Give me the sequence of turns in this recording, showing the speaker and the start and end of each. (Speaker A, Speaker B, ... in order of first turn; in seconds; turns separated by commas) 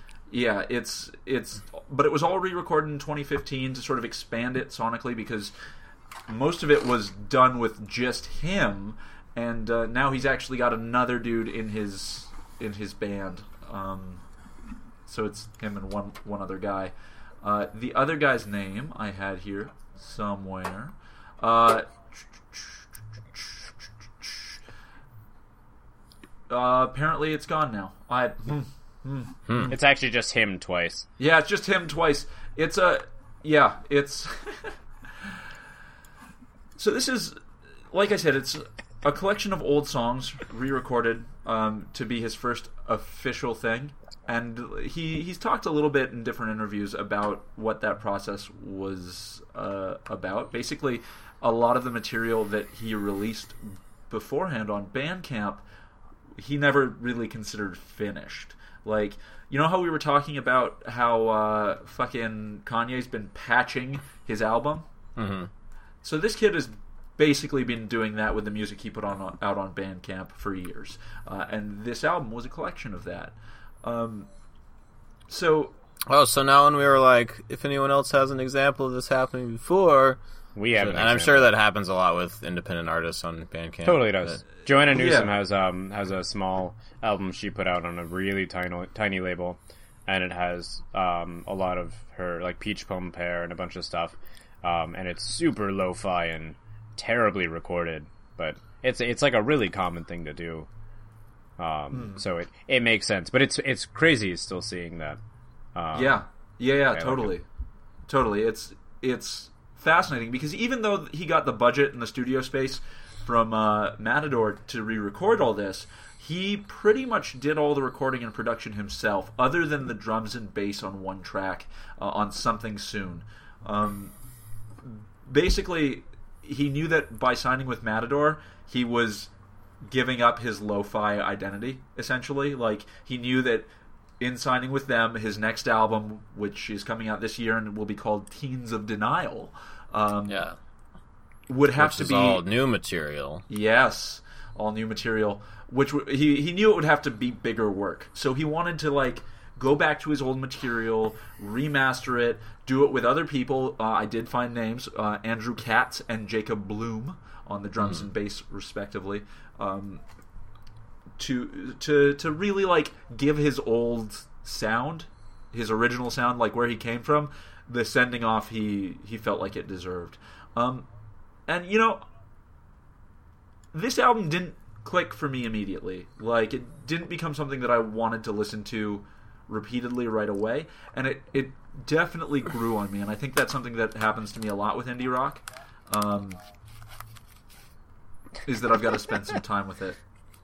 Speaker A: 0.3-5.5, Speaker A: 6.3-14.2, Speaker A: 15.1-21.9, Speaker A: 26.5-29.7, Speaker B: 29.5-29.7, Speaker C: 29.7-31.1, Speaker A: 31.2-35.3, Speaker A: 36.8-37.4, Speaker A: 37.9-55.6, Speaker A: 56.4-64.8, Speaker B: 65.2-65.5, Speaker A: 66.0-74.3, Speaker A: 75.3-75.7, Speaker B: 76.1-80.2, Speaker C: 80.5-81.5, Speaker B: 80.7-84.4, Speaker C: 83.8-100.7, Speaker A: 84.9-85.3, Speaker C: 101.6-105.2, Speaker A: 101.9-102.2, Speaker C: 105.7-106.2, Speaker A: 105.9-107.4, Speaker C: 106.9-107.3, Speaker A: 108.1-124.1, Speaker A: 124.8-129.3, Speaker A: 129.8-133.7, Speaker A: 134.2-140.4, Speaker B: 140.3-140.6, Speaker A: 141.5-142.4, Speaker B: 141.7-143.4, Speaker A: 143.5-160.0, Speaker A: 161.2-170.8, Speaker A: 171.5-172.0, Speaker A: 173.7-186.4, Speaker A: 188.4-190.0